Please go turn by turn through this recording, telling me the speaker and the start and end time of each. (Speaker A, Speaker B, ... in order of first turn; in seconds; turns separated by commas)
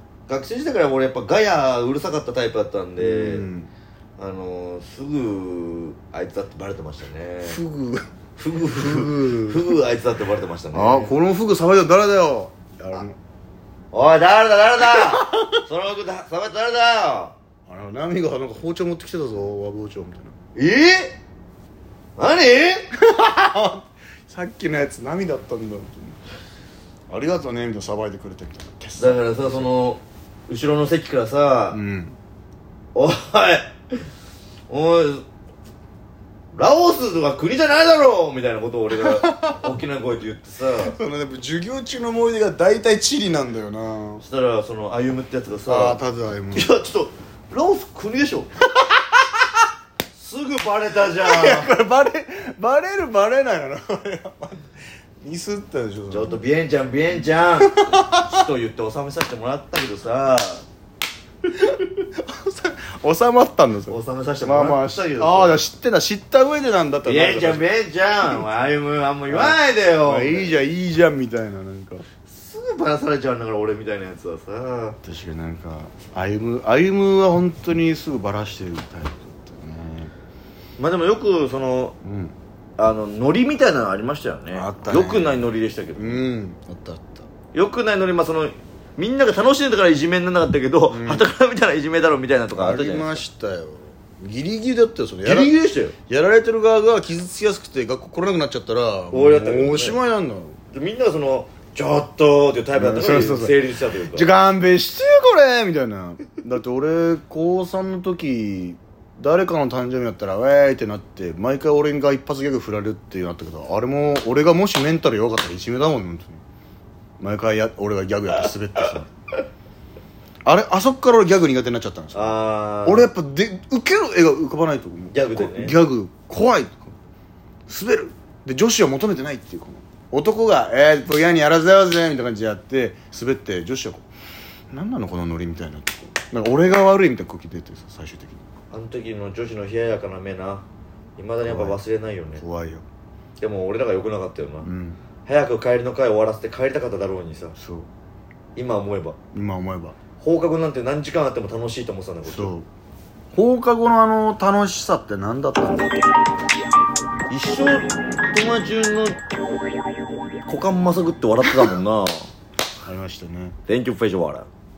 Speaker A: 0.3-3.5, Speaker B: 3.0-3.7, Speaker A: 4.2-7.6, Speaker B: 7.4-8.1, Speaker A: 8.4-11.1, Speaker B: 8.8-9.8, Speaker B: 10.7-13.2, Speaker A: 13.9-17.4, Speaker B: 14.9-15.6, Speaker B: 17.7-20.4, Speaker A: 20.6-21.2, Speaker A: 22.2-22.9, Speaker B: 22.9-26.2, Speaker B: 27.1-29.7, Speaker A: 29.0-31.8, Speaker B: 31.7-32.2, Speaker A: 33.0-34.0, Speaker A: 34.7-35.2, Speaker A: 36.5-41.0, Speaker B: 39.0-39.6, Speaker B: 40.8-44.2, Speaker A: 44.2-46.0, Speaker B: 45.7-46.7, Speaker A: 46.5-48.6, Speaker A: 50.1-51.7, Speaker B: 51.2-54.7, Speaker B: 55.2-56.4, Speaker A: 56.1-60.7, Speaker B: 57.6-58.4, Speaker B: 61.6-67.7, Speaker A: 63.9-65.6, Speaker A: 67.0-70.6, Speaker B: 69.3-72.0, Speaker A: 72.2-75.0, Speaker B: 75.0-80.1, Speaker A: 80.8-82.0, Speaker B: 82.0-82.3, Speaker A: 82.8-86.2, Speaker B: 84.5-87.3, Speaker A: 87.5-93.2, Speaker B: 90.9-91.3, Speaker B: 92.5-100.6, Speaker A: 95.2-96.0, Speaker A: 99.1-100.0, Speaker A: 100.7-104.3, Speaker B: 102.8-103.6, Speaker B: 104.1-116.4, Speaker B: 117.2-119.1, Speaker B: 120.4-126.9, Speaker A: 122.1-123.1, Speaker A: 125.1-125.8, Speaker B: 127.7-134.1, Speaker B: 134.7-138.4, Speaker A: 138.7-140.7, Speaker A: 141.2-142.4, Speaker B: 141.4-141.8, Speaker B: 142.4-142.8, Speaker A: 143.4-144.7, Speaker B: 144.6-145.0, Speaker A: 145.2-147.6, Speaker B: 147.6-147.9, Speaker A: 148.6-149.2, Speaker B: 149.3-150.0, Speaker A: 150.2-152.6, Speaker B: 152.2-152.7, Speaker B: 153.3-155.9, Speaker A: 157.3-159.2, Speaker A: 160.5-162.3, Speaker B: 162.8-163.6, Speaker A: 163.7-164.5